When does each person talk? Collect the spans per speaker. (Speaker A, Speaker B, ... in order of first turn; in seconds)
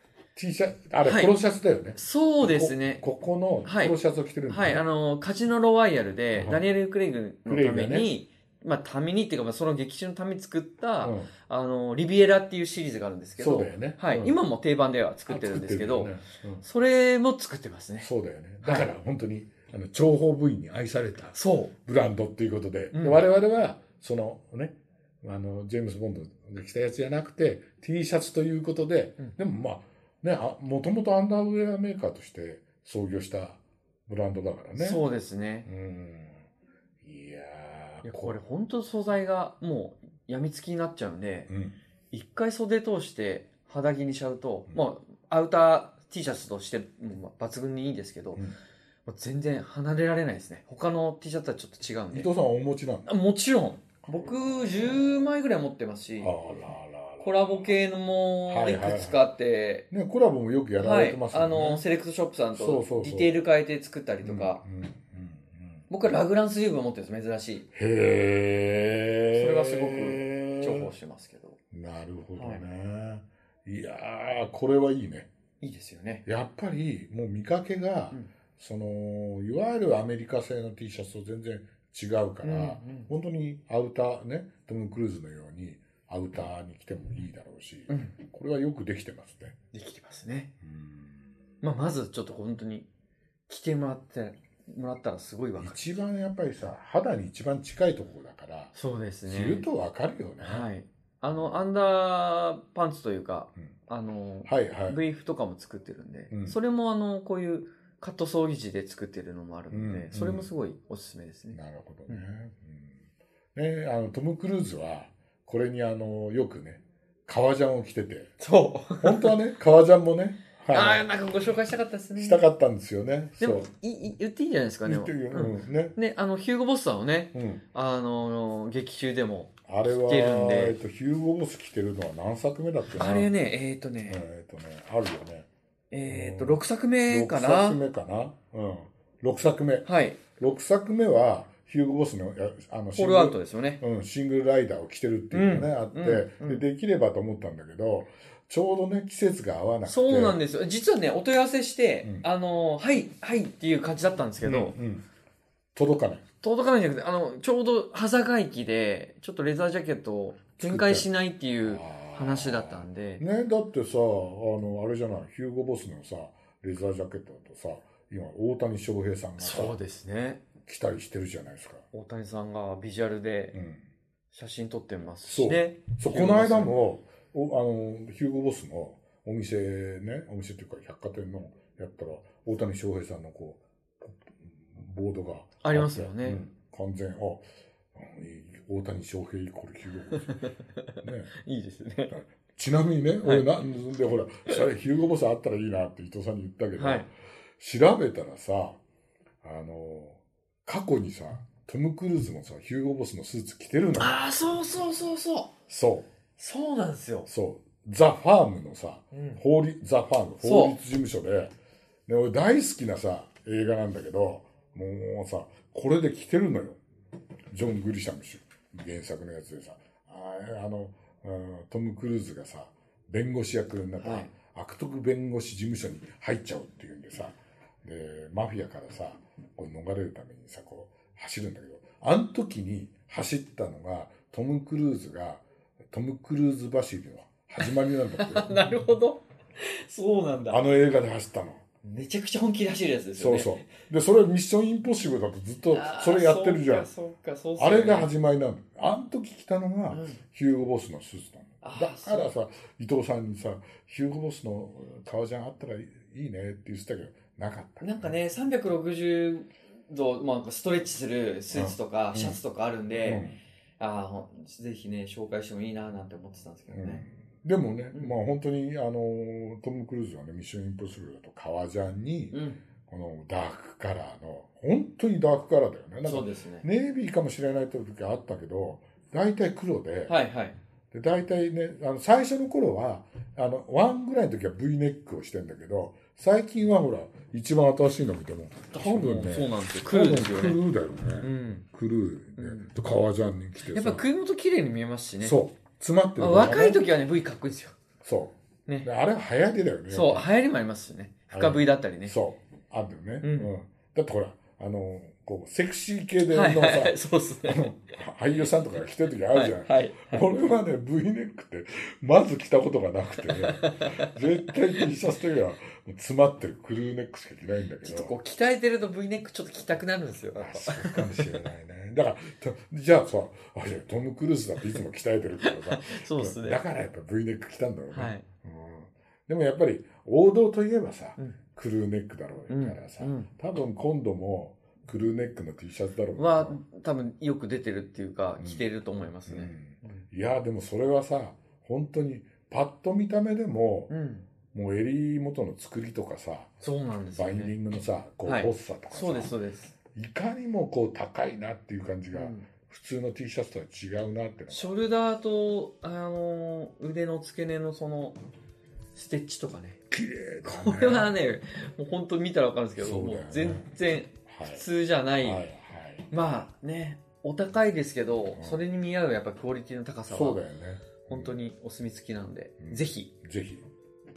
Speaker A: 0.3-4.8, 6.3-6.6, 7.5-8.1, 11.0-11.3, 13.4-14.4, 15.3-16.6, 18.0-35.0, 35.6-36.5, 37.0-38.4, 41.5-41.8, 52.1-53.1, 54.0-55.1, 56.2-57.7, 58.5-59.2, 59.9-61.8, 62.5-63.3, 64.2-65.9, 67.7-70.9, 71.7-75.3, 76.2-89.5, 90.6-91.4, 95.6-98.7, 99.2-100.7, 104.4-105.0, 106.3-106.6, 109.7-110.5, 111.5-118.3, 119.0-121.1, 122.2-123.7, 124.8-126.0, 127.3-127.6, 129.7-133.3, 134.1-135.5, 136.0-150.4, 154.4-155.1, 155.7-156.2, 160.6-161.1, 161.6-169.8, 170.6-171.8, 173.5-173.8, 175.2-190.5, 191.0-191.3, 192.1-198.8, 199.4-204.2, 205.7-206.1, 207.3-211.6, 212.1-216.8, 217.5-238.6, 240.5-241.6, 243.2-246.9, 247.6-258.1, 261.5-262.4, 263.0-263.4, 266.7-280.1, 280.9-294.0, 295.2-296.9, 298.0-300.3, 301.3-318.1, 320.3-336.6, 338.4-338.7, 339.3-343.9, 344.5-346.5, 347.1-349.3, 349.9-354.8, 359.9-361.2, 362.8-364.6, 365.2-366.1, 368.3-368.6, 370.1-371.4, 372.6-373.6
Speaker B: 1.0-1.3, 1.9-3.0, 3.6-3.9, 4.5-18.1, 18.6-18.9, 21.3-21.7, 22.9-23.2, 34.8-35.7, 38.0-41.5, 42.1-48.4, 49.0-52.3, 53.0-56.3, 57.2-59.9, 60.8-64.6, 65.9-67.7, 69.3-71.6, 72.3-72.6, 75.6-76.2, 82.4-83.1, 89.7-90.5, 91.6-92.9, 93.5-95.8, 98.7-99.7, 100.4-112.2, 118.4-119.3, 120.7-122.4, 123.4-130.8, 132.8-134.2, 135.9-137.8, 139.8-140.2, 142.9-143.8, 145.3-146.6, 149.8-154.8, 156.4-163.2, 169.4-170.4, 171.9-173.6, 174.3-176.7, 185.6-186.4, 190.2-192.1, 193.2-193.5, 196.8-197.1, 203.9-205.5, 206.4-207.3, 209.1-209.4, 210.4-210.8, 224.0-224.3, 237.7-240.6, 241.8-243.6, 245.7-248.1, 249.9-250.2, 251.6-252.3, 257.8-263.3, 263.8-267.0, 272.3-272.6, 276.0-276.6, 280.1-280.6, 288.7-290.6, 291.2-291.6, 292.4-292.7, 293.6-295.4, 296.2-297.8, 299.9-302.1, 303.2-303.5, 306.3-307.8, 309.3-310.2, 313.2-314.9, 317.8-321.3, 325.4-326.6, 327.9-328.2, 332.5-333.3, 336.1-340.0, 343.9-344.2, 346.6-347.5, 348.2-349.7, 352.1-352.5, 354.5-358.2, 358.9-359.8, 360.4-365.5, 366.1-370.4, 371.0-373.1